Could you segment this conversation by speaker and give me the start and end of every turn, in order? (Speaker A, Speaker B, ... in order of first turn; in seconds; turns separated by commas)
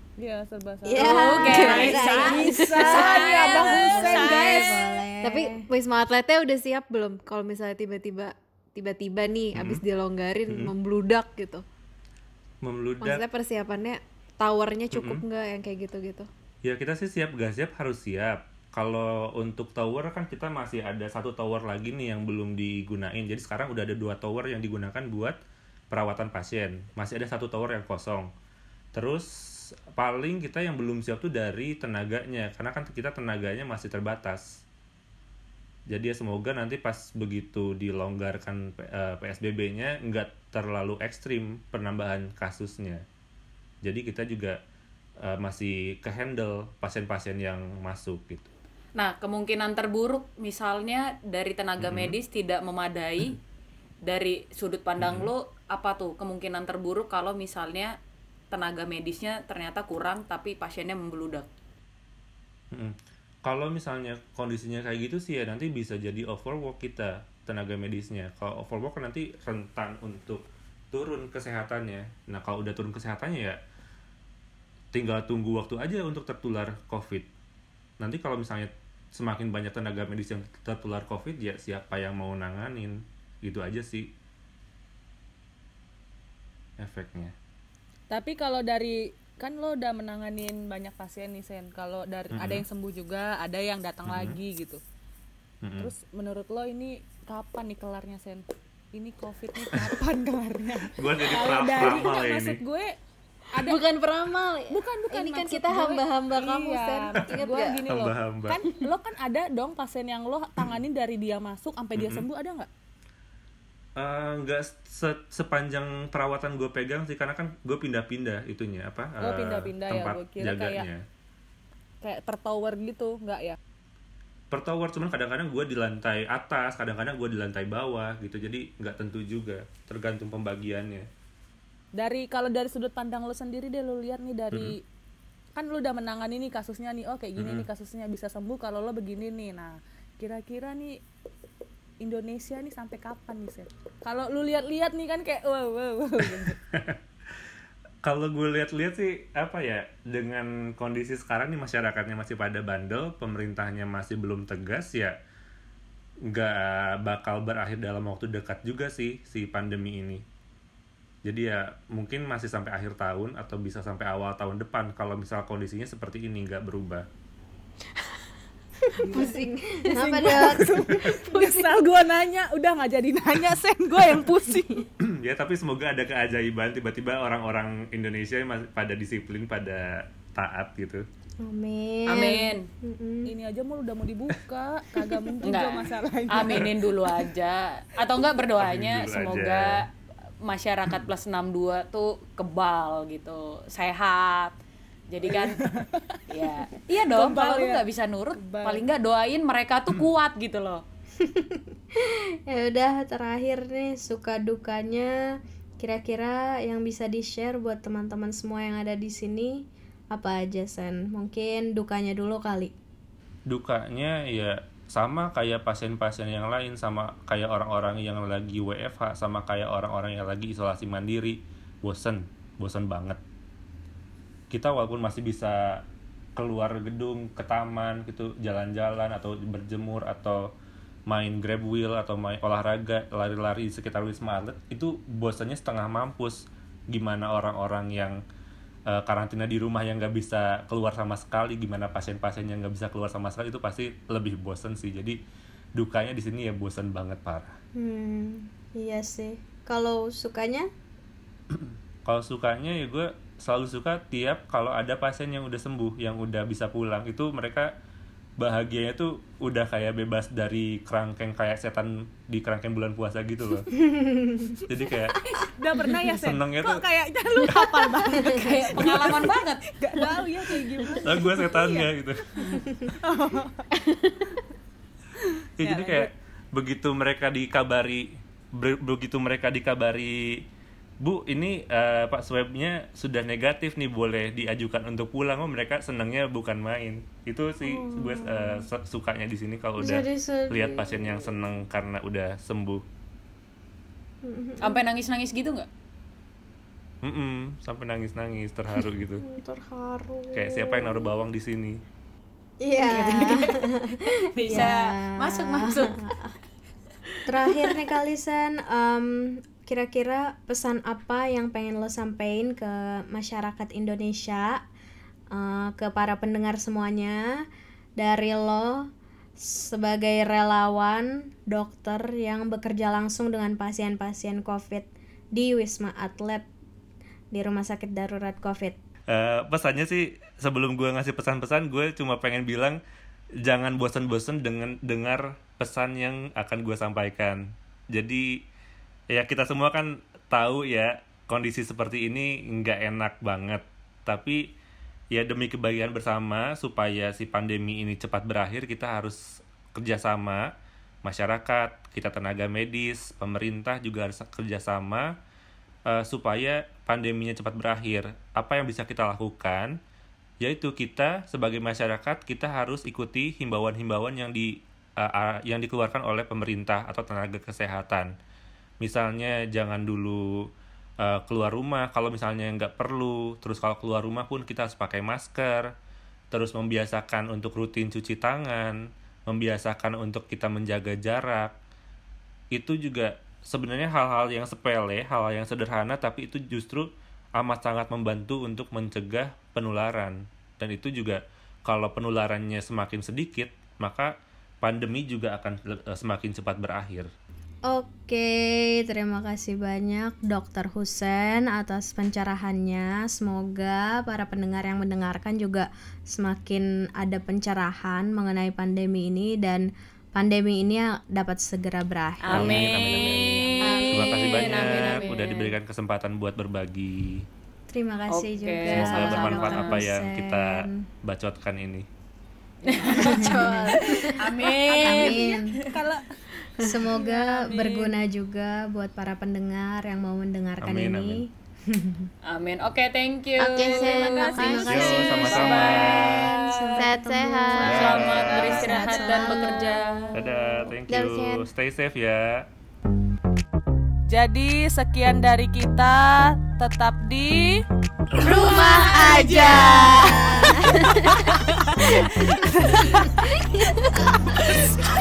Speaker A: 0.2-4.7, Speaker B: 0.8-3.6, Speaker C: 1.0-5.0, Speaker D: 1.0-5.7, Speaker B: 5.2-11.6, Speaker E: 9.6-9.8, Speaker E: 10.5-10.7, Speaker E: 12.6-13.2, Speaker B: 13.0-16.3, Speaker E: 14.9-15.2, Speaker E: 16.6-25.4, Speaker E: 25.9-28.3, Speaker E: 28.9-29.3, Speaker E: 29.9-34.6, Speaker E: 35.9-43.0, Speaker E: 43.8-44.6, Speaker E: 45.2-48.5, Speaker C: 49.0-53.4, Speaker E: 51.8-52.2, Speaker C: 54.0-57.9, Speaker E: 55.0-55.3, Speaker C: 58.5-61.5, Speaker E: 62.7-73.6, Speaker E: 74.9-77.3, Speaker E: 78.0-84.1, Speaker E: 86.8-87.3, Speaker A: 88.1-94.8, Speaker E: 92.3-92.7, Speaker E: 94.1-94.4, Speaker E: 95.6-95.9, Speaker A: 95.8-103.0, Speaker E: 100.8-102.6, Speaker A: 103.5-103.8, Speaker B: 103.6-107.9, Speaker A: 104.7-112.7, Speaker E: 107.9-108.7, Speaker E: 112.0-112.3, Speaker E: 114.0-121.0, Speaker A: 119.2-120.9, Speaker A: 122.0-123.6, Speaker E: 124.5-131.1, Speaker A: 132.0-134.8, Speaker A: 135.6-141.0, Speaker E: 137.4-137.7, Speaker A: 142.0-146.6, Speaker E: 146.2-147.0, Speaker E: 148.1-155.2, Speaker E: 156.3-160.2, Speaker E: 161.2-167.1, Speaker D: 169.0-171.6, Speaker B: 169.1-171.6, Speaker A: 170.3-174.9, Speaker E: 170.8-171.1, Speaker E: 175.0-181.0, Speaker D: 181.4-183.3, Speaker C: 182.1-182.7, Speaker A: 183.3-187.3, Speaker C: 185.4-189.9, Speaker E: 188.6-189.8, Speaker C: 190.4-194.6, Speaker C: 195.1-195.7, Speaker A: 195.3-196.2, Speaker C: 196.3-200.8, Speaker A: 197.0-197.8, Speaker A: 198.4-198.8, Speaker D: 201.2-205.1, Speaker D: 205.8-212.7, Speaker E: 213.5-223.2, Speaker E: 224.5-225.8, Speaker E: 226.4-230.5, Speaker E: 231.1-238.2, Speaker E: 238.9-245.2, Speaker E: 245.8-247.5, Speaker D: 247.8-250.7, Speaker E: 251.5-257.7, Speaker E: 258.4-263.7, Speaker D: 263.8-264.6, Speaker E: 264.6-265.2, Speaker A: 265.2-273.7, Speaker E: 266.1-266.9, Speaker C: 268.3-269.6, Speaker E: 271.0-272.6, Speaker D: 272.6-272.9, Speaker A: 275.2-276.1, Speaker E: 275.6-280.4, Speaker E: 281.0-292.8, Speaker D: 287.6-288.7, Speaker D: 289.8-291.4, Speaker D: 294.2-294.8, Speaker C: 294.6-295.7, Speaker E: 297.0-299.2, Speaker D: 299.2-301.1, Speaker E: 300.3-301.8, Speaker D: 302.6-306.3, Speaker C: 302.8-303.6, Speaker C: 304.2-306.1, Speaker D: 307.3-314.6, Speaker D: 315.3-317.2, Speaker D: 318.0-326.5, Speaker D: 327.3-328.8, Speaker E: 329.1-332.8, Speaker E: 333.4-338.4, Speaker E: 339.1-344.5, Speaker E: 345.1-350.5, Speaker E: 351.1-355.1, Speaker E: 355.9-359.8, Speaker E: 360.4-368.1, Speaker E: 368.8-370.5, Speaker E: 371.0-375.7, Speaker E: 376.3-381.5, Speaker E: 382.5-397.1, Speaker D: 397.7-415.1, Speaker C: 412.2-415.5, Speaker E: 412.3-417.3, Speaker B: 413.6-414.9, Speaker D: 417.7-420.9, Speaker C: 418.1-419.8, Speaker E: 418.7-421.9, Speaker C: 422.7-425.3, Speaker D: 422.9-424.2, Speaker A: 423.9-427.9, Speaker D: 424.8-425.5, Speaker D: 426.6-432.1, Speaker E: 430.6-431.2, Speaker C: 432.3-436.7, Speaker B: 433.4-435.4, Speaker D: 433.7-440.1, Speaker A: 433.8-434.9, Speaker E: 434.7-436.3, Speaker B: 436.8-437.8, Speaker A: 437.5-439.6, Speaker C: 437.7-440.1, Speaker E: 437.7-438.7, Speaker E: 440.1-442.5, Speaker B: 440.6-441.5, Speaker A: 444.1-447.6, Speaker B: 448.2-451.2, Speaker A: 448.2-451.1, Speaker D: 450.4-451.3, Speaker B: 451.8-454.8, Speaker A: 451.9-452.5